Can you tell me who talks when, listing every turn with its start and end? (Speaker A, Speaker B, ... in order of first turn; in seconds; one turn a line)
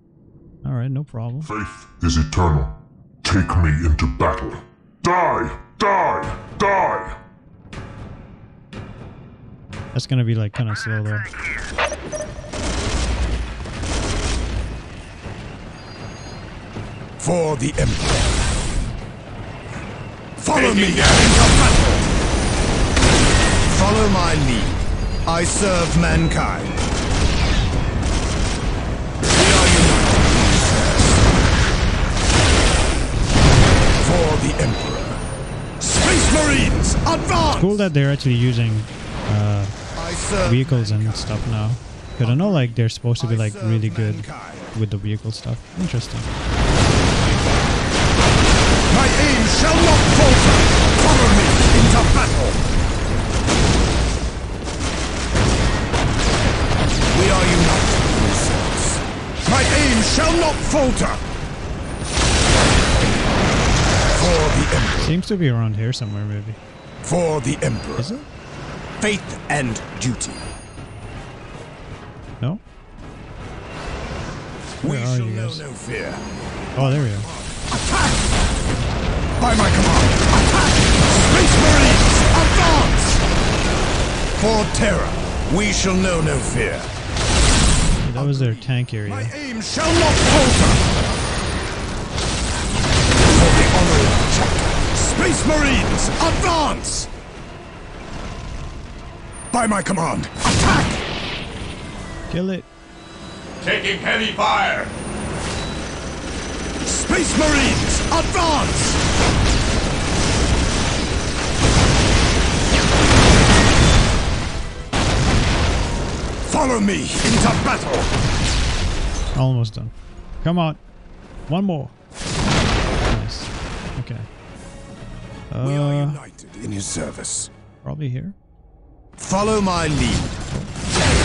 Speaker A: 0.6-1.5
Speaker B: 1.4-7.2
Speaker A: 9.9-11.3
Speaker C: 17.2-18.4
Speaker C: 20.4-22.1
Speaker D: 20.5-21.5
Speaker C: 23.7-26.8
Speaker C: 29.3-31.0
Speaker C: 34.0-35.2
Speaker C: 35.8-37.9
Speaker A: 37.5-39.8
Speaker C: 39.9-41.3
Speaker A: 40.4-46.3
Speaker C: 42.2-44.7
Speaker C: 48.9-52.6
Speaker C: 57.1-61.2
Speaker C: 64.1-65.2
Speaker A: 65.0-66.6
Speaker C: 67.0-68.1
Speaker A: 68.0-68.3
Speaker C: 69.0-70.4
Speaker A: 74.8-75.6
Speaker C: 74.8-78.4
Speaker A: 76.8-77.3
Speaker C: 79.4-83.2
Speaker C: 84.4-86.9
Speaker A: 88.0-89.3
Speaker C: 88.1-90.9
Speaker C: 93.2-97.1
Speaker C: 99.5-101.0
Speaker A: 102.3-102.7
Speaker D: 103.6-104.9
Speaker C: 106.8-109.0
Speaker C: 116.5-118.1
Speaker A: 119.3-120.8
Speaker A: 121.5-121.9
Speaker A: 123.1-124.3
Speaker A: 125.5-126.2
Speaker C: 125.6-127.5
Speaker A: 127.8-128.3
Speaker C: 129.2-130.4